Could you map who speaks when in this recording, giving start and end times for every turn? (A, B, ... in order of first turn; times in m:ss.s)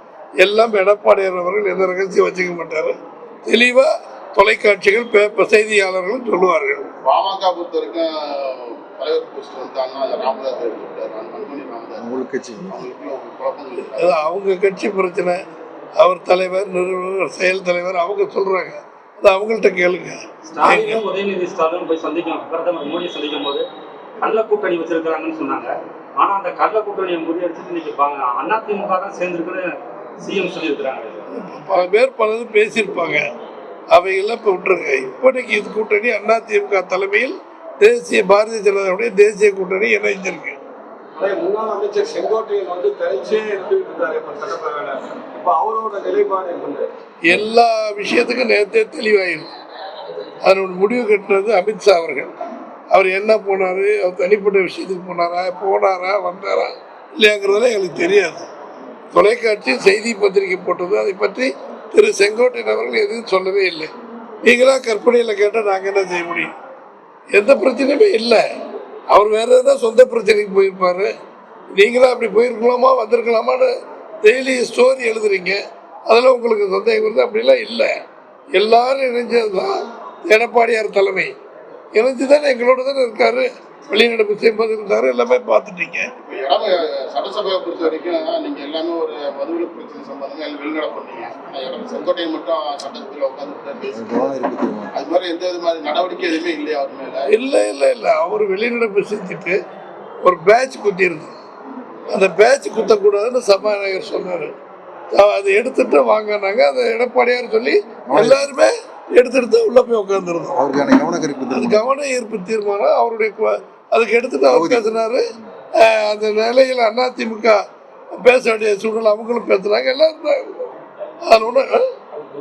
0:00.4-0:06.8 A
0:07.0-0:12.1 B
0:12.0-0:12.7 C
0:12.7-0:14.2 B
0:13.9-0:15.4 A
0:16.0-0:21.0 A
0:20.5-0:23.6 D
0:24.2-0:31.2 D
0:31.3-0:33.2 A
0:33.9-0:40.6 A
0:41.2-0:46.8 E
0:47.3-0:49.5 A
0:50.4-0:52.3 A
0:52.9-0:58.4 A
0:59.1-1:03.9 A
1:04.4-1:06.5 A
1:07.3-1:08.4 A
1:09.1-1:11.1 A
1:11.7-1:13.7 A
1:14.2-1:17.9 A
1:18.5-1:21.3 A
1:21.9-1:26.1 A
1:26.2-1:34.2 B
1:33.9-1:34.9 C
1:34.9-1:37.2 B
1:37.3-1:39.6 A
1:40.2-1:41.3 A
1:42.1-1:44.5 A
1:45.1-1:50.6 A
1:48.1-1:48.4 C
1:50.6-1:51.8 C
1:51.5-1:55.2 A
1:54.5-1:54.9 C
1:55.8-1:57.6 A
1:58.1-2:00.7 A
2:01.2-2:01.8 A